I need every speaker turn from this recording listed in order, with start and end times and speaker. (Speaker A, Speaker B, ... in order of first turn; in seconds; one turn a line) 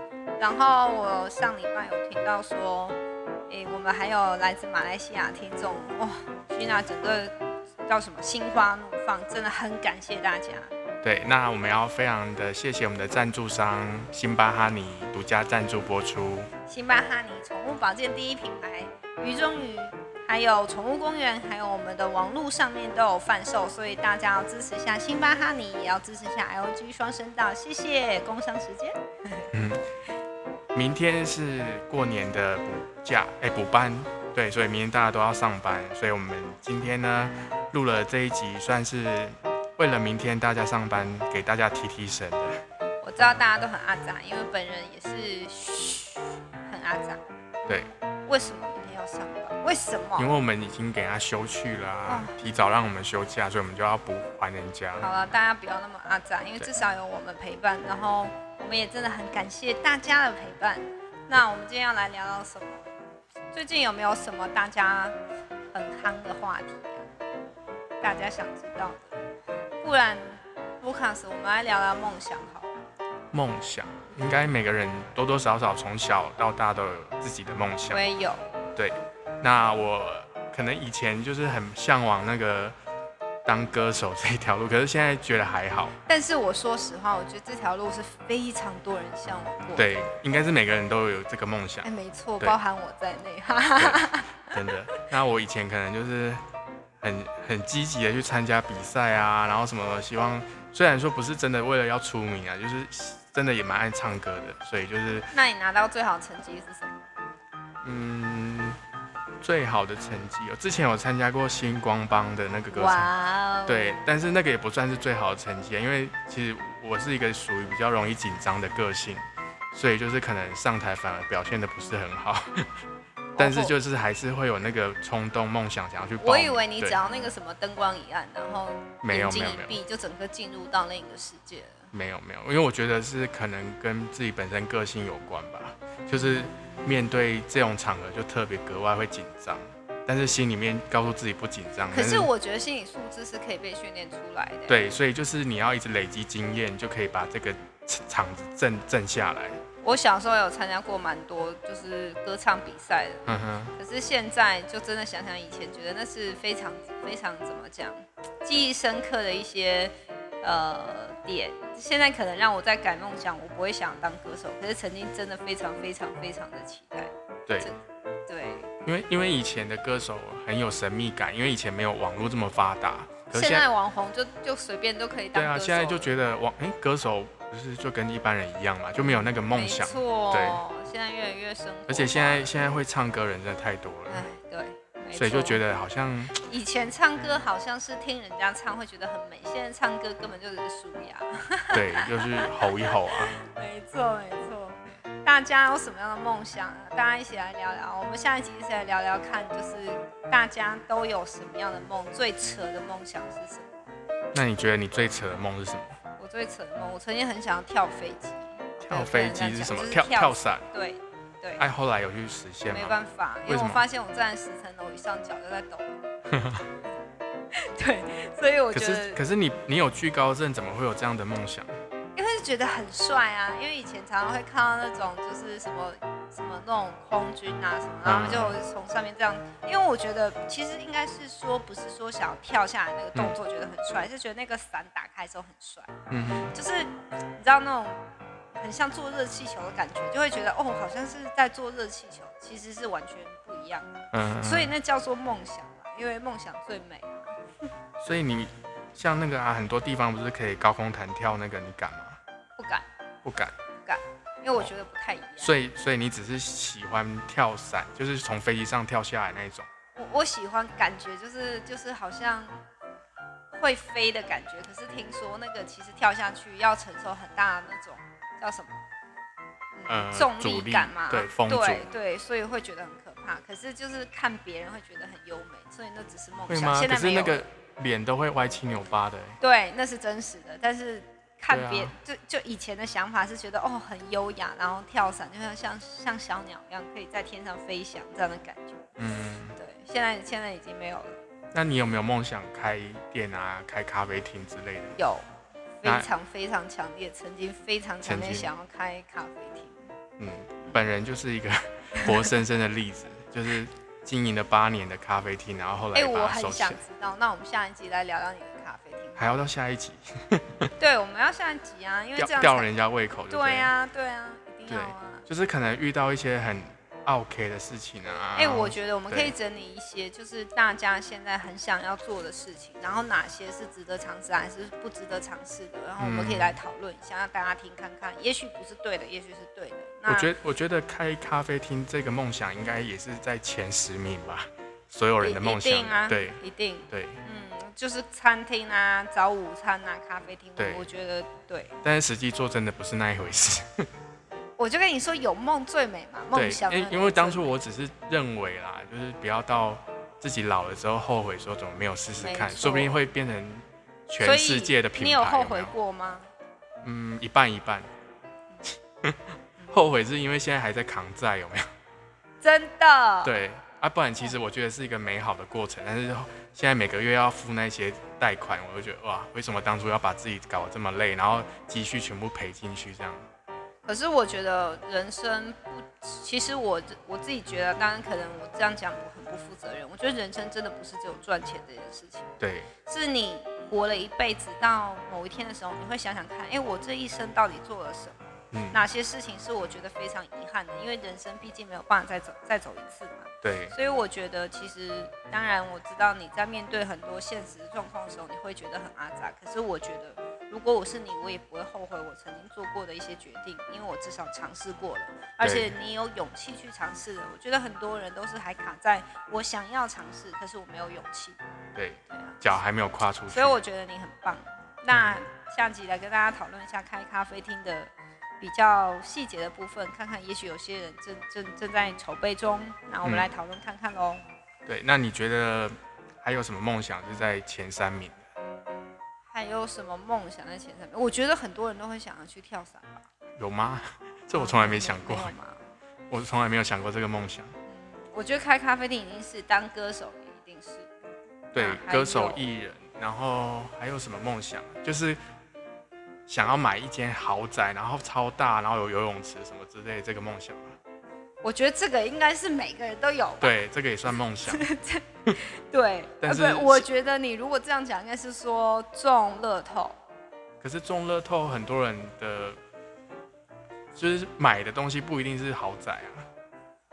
Speaker A: 0.4-3.0
Speaker A: 3.5-7.3
Speaker A: 7.9-10.7
Speaker B: 11.0-16.5
Speaker A: 16.7-29.5
Speaker B: 29.5-29.9
Speaker B: 30.7-42.6
Speaker A: 43.0-47.2
Speaker A: 48.3-50.3
Speaker B: 50.2-55.1
Speaker A: 52.1-52.3
Speaker A: 55.0-62.9
Speaker A: 63.5-65.2
Speaker A: 65.7-67.1
Speaker A: 68.0-69.2
Speaker A: 69.8-72.9
Speaker B: 73.3-78.0
Speaker A: 77.9-78.5
Speaker B: 78.8-82.8
Speaker B: 83.5-86.0
Speaker A: 86.1-90.1
Speaker B: 89.8-91.9
Speaker A: 91.8-94.6
Speaker B: 93.8-96.4
Speaker B: 97.0-105.3
Speaker A: 105.3-107.0
Speaker B: 107.8-108.8
Speaker B: 109.4-113.1
Speaker A: 112.7-114.0
Speaker B: 113.7-119.2
Speaker B: 119.7-122.7
Speaker A: 123.4-123.8
Speaker B: 123.4-127.0
Speaker A: 126.2-131.9
Speaker B: 129.0-129.8
Speaker B: 131.9-142.3
Speaker A: 141.9-144.8
Speaker B: 144.7-149.6
Speaker A: 149.8-153.2
Speaker B: 153.2-153.8
Speaker A: 153.8-168.7
Speaker B: 168.8-173.7
Speaker A: 173.3-176.1
Speaker B: 175.3-180.6
Speaker A: 179.5-182.6
Speaker B: 181.9-184.2
Speaker A: 184.1-185.6
Speaker B: 185.1-186.3
Speaker A: 186.3-203.9
Speaker B: 191.7-193.3
Speaker B: 204.3-206.0
Speaker A: 206.2-211.7
Speaker B: 208.8-210.7
Speaker B: 211.6-213.8
Speaker A: 212.7-216.0
Speaker B: 216.3-216.7
Speaker A: 217.6-219.2
Speaker B: 218.7-221.8
Speaker A: 222.2-235.9
Speaker B: 228.1-228.6
Speaker B: 236.1-236.6
Speaker A: 236.5-238.0
Speaker A: 238.5-247.4
Speaker B: 244.1-244.7
Speaker B: 248.0-252.2
Speaker A: 252.6-252.9
Speaker B: 253.2-253.6
Speaker A: 253.8-255.6
Speaker B: 255.4-259.7
Speaker A: 259.9-262.6
Speaker A: 263.5-268.8
Speaker A: 269.8-277.4
Speaker B: 269.9-271.9
Speaker B: 276.5-279.4
Speaker A: 279.4-288.9
Speaker B: 281.5-281.9
Speaker B: 289.0-289.6
Speaker A: 289.6-291.2
Speaker B: 291.5-295.0
Speaker A: 295.0-295.2
Speaker A: 295.8-299.8
Speaker B: 295.8-296.1
Speaker B: 298.0-298.5
Speaker B: 300.2-306.8
Speaker A: 302.0-302.3
Speaker A: 305.9-309.3
Speaker B: 309.2-310.7
Speaker A: 310.8-312.7
Speaker B: 312.2-313.7
Speaker A: 313.3-315.2
Speaker B: 314.7-319.3
Speaker A: 318.4-330.3
Speaker B: 326.0-326.6
Speaker B: 330.1-336.4
Speaker A: 335.2-341.8
Speaker B: 336.9-337.2
Speaker B: 340.6-340.9
Speaker B: 341.8-343.9
Speaker A: 344.6-347.5
Speaker B: 346.3-355.7
Speaker A: 352.2-353.0
Speaker A: 354.2-356.3
Speaker B: 356.8-357.9
Speaker B: 359.0-361.7
Speaker A: 359.6-359.9
Speaker A: 362.4-363.3
Speaker B: 363.2-373.3
Speaker A: 373.9-382.3
Speaker B: 382.4-382.7
Speaker A: 382.9-411.4
Speaker B: 388.5-388.8
Speaker B: 393.4-393.8
Speaker B: 405.4-405.7
Speaker B: 411.8-413.6
Speaker A: 412.1-412.4
Speaker A: 413.3-424.2
Speaker B: 414.9-415.2
Speaker B: 423.0-423.3
Speaker B: 424.7-428.2
Speaker A: 429.3-433.1
Speaker B: 433.4-435.3
Speaker A: 434.3-435.6
Speaker B: 436.1-437.5
Speaker A: 437.7-440.9
Speaker A: 441.5-442.5
Speaker B: 441.5-445.2
Speaker B: 446.3-450.8
Speaker A: 451.4-453.5
Speaker B: 453.4-454.7
Speaker A: 454.1-460.0
Speaker B: 456.2-456.9
Speaker B: 460.6-462.6
Speaker B: 463.9-466.3